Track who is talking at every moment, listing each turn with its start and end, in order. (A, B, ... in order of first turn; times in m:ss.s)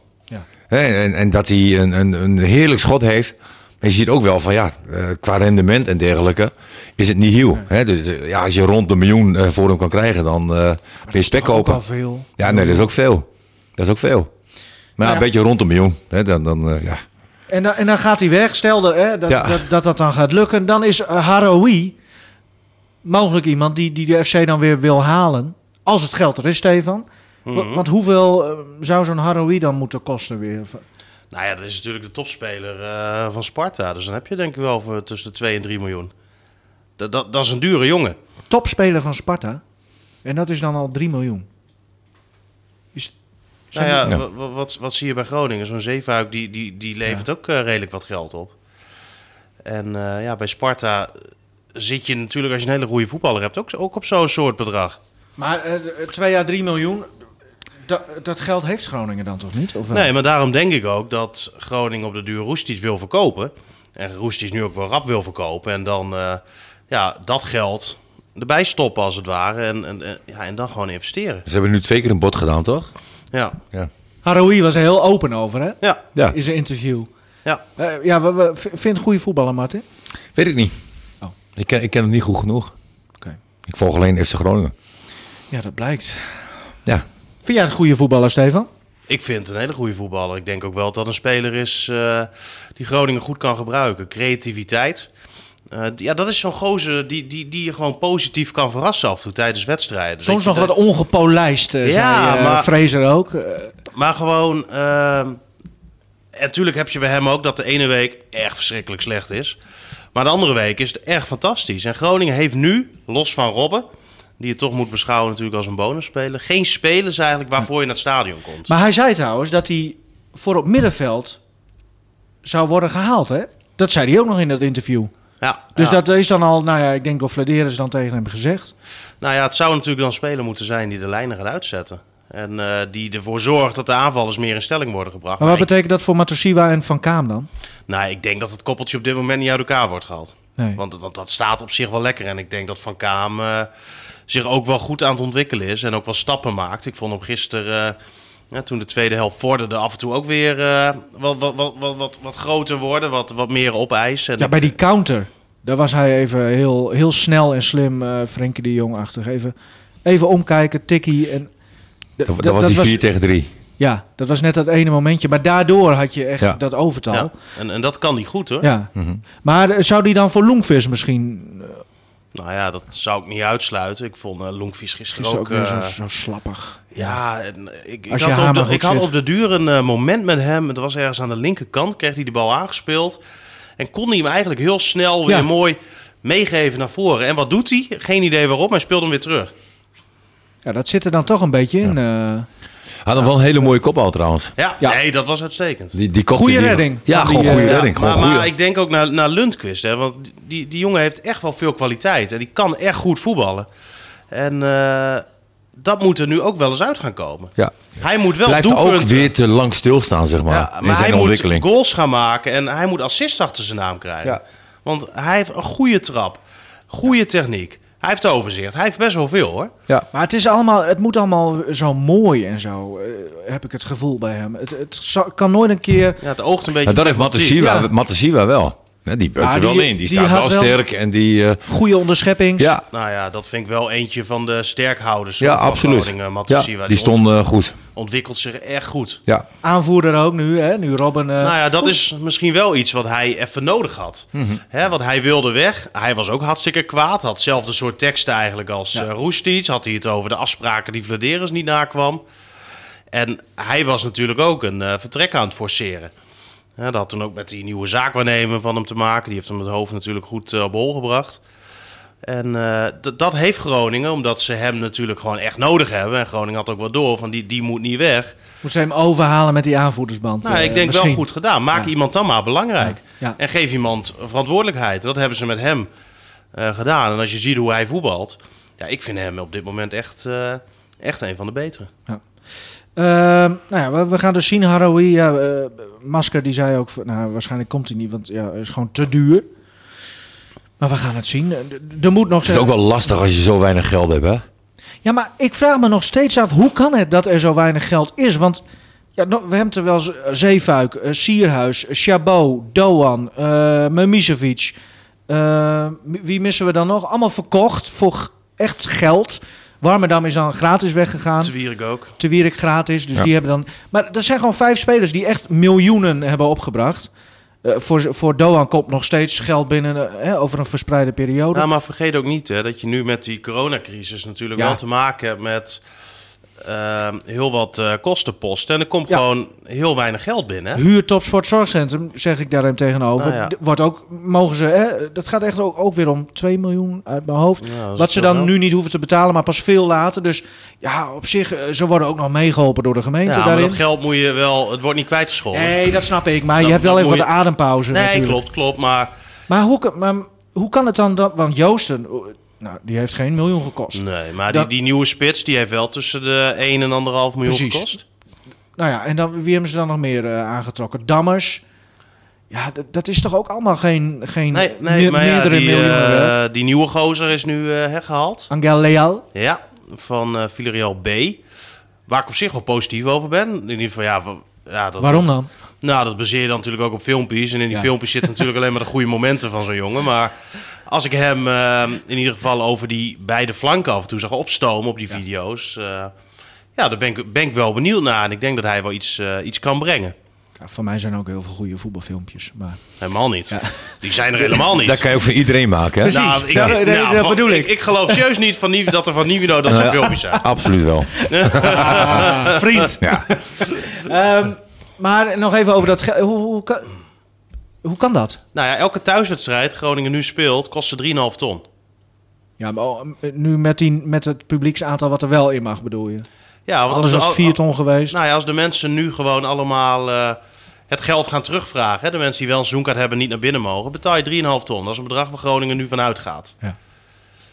0:00.7-0:11.8 A
0:11.1-0:12.9 B
0:12.4-0:14.3 A
0:15.0-0:17.0 A
0:17.5-0:22.0 B
0:19.3-0:19.6 A
0:23.0-0:30.8 B
0:27.4-0:27.8 C
0:31.3-0:36.1 C
0:37.0-0:38.2 C
0:38.5-0:39.6 B
0:40.2-0:41.4 B
0:43.7-0:44.0 B
0:43.7-0:48.5 C
0:49.6-0:51.2 C
0:51.7-0:55.0 C
0:55.4-0:57.1 B
0:57.8-1:00.1 B
0:59.9-1:11.4 C
1:11.4-1:12.9 A
1:13.3-1:13.6 C
1:14.2-1:17.1 B
1:17.8-1:19.8 B
1:20.3-1:20.7 A
1:21.6-1:22.7 A
1:23.7-1:24.7 A
1:25.5-1:26.2 B
1:27.4-1:28.7 B
1:29.1-1:35.1 C
1:35.7-1:40.7 C
1:40.2-1:43.7 B
1:41.8-1:42.7 C
1:43.9-1:45.4 C
1:46.3-1:49.6 C
1:50.1-1:53.8 C
1:54.4-1:58.7 C
1:58.7-2:01.4 B
2:02.4-2:05.1 B
2:05.4-2:06.0 C
2:05.8-2:08.7 B
2:09.2-2:15.7 C
2:15.4-2:17.5 B
2:17.9-2:23.7 C
2:24.3-2:28.0 C
2:28.5-2:34.7 C
2:34.4-2:39.5 B
2:40.0-2:41.5 B
2:42.2-2:43.0 B
2:42.3-2:43.5 A
2:43.8-2:47.3 B
2:47.1-2:48.7 C
2:48.6-2:48.9 B
2:48.9-2:49.2 A
2:49.4-2:51.8 B
2:52.3-2:55.9 C
2:55.2-2:57.1 B
2:56.9-3:03.2 C
2:58.1-2:59.1 B
3:03.8-3:09.5 C
3:10.6-3:12.5 B
3:13.0-3:14.5 A
3:14.6-3:16.0 C
3:15.9-3:18.5 A
3:16.3-3:17.9 B
3:17.4-3:23.7 C
3:24.3-3:25.2 C
3:25.8-3:29.3 C
3:28.4-3:31.7 A
3:30.5-3:39.7 C
3:40.1-3:46.2 B
3:46.2-3:47.6 C
3:46.8-3:51.6 A
3:47.6-3:47.9 B
3:49.4-3:50.8 B
3:51.7-3:52.7 B
3:52.6-3:52.8 A
3:52.9-3:57.2 C
3:55.4-3:57.8 A
3:57.9-3:59.2 C
3:59.6-4:01.9 B
4:01.4-4:12.2 C
4:04.3-4:04.6 A
4:13.1-4:16.1 C
4:16.8-4:21.4 C
4:22.2-4:28.3 C
4:28.6-4:31.9 B
4:30.4-4:35.9 C
4:32.8-4:33.4 B
4:36.5-4:41.9 C
4:43.0-4:49.5 B
4:50.8-4:52.7 B
4:52.4-4:54.4 A
4:55.0-4:58.6 B
4:59.2-5:04.8 B
5:05.3-5:11.5 B
5:11.4-5:12.2 C
5:12.2-5:17.1 B
5:17.6-5:21.7 B
5:21.5-5:25.8 C
5:26.6-5:30.8 C
5:30.7-5:43.8 B
5:33.2-5:33.5 C
5:37.6-5:38.5 C
5:43.3-5:45.8 C
5:45.5-5:48.4 B
5:46.6-5:47.3 C
5:47.9-5:49.1 C
5:49.5-5:54.7 B
5:53.9-5:58.0 C
5:57.4-5:58.0 B
5:58.8-6:01.6 B
6:02.5-6:06.3 B
6:04.5-6:08.5 C
6:08.5-6:09.2 B
6:09.3-6:11.4 C
6:12.1-6:15.3 C
6:15.0-6:15.5 B
6:15.8-6:20.3 C
6:20.9-6:26.1 C
6:26.8-6:30.1 C
6:30.6-6:32.8 B
6:33.0-6:35.0 C
6:34.6-6:36.8 A
6:36.0-6:38.2 B
6:36.0-6:40.4 C
6:39.6-6:42.3 A
6:41.3-6:42.8 C
6:41.4-6:46.9 B
6:43.0-6:43.3 A
6:47.8-6:48.4 B
6:48.5-6:51.6 C
6:52.6-6:56.2 B
6:56.7-6:57.6 C
6:56.9-6:58.2 B
6:58.1-7:00.4 C
7:00.9-7:06.5 C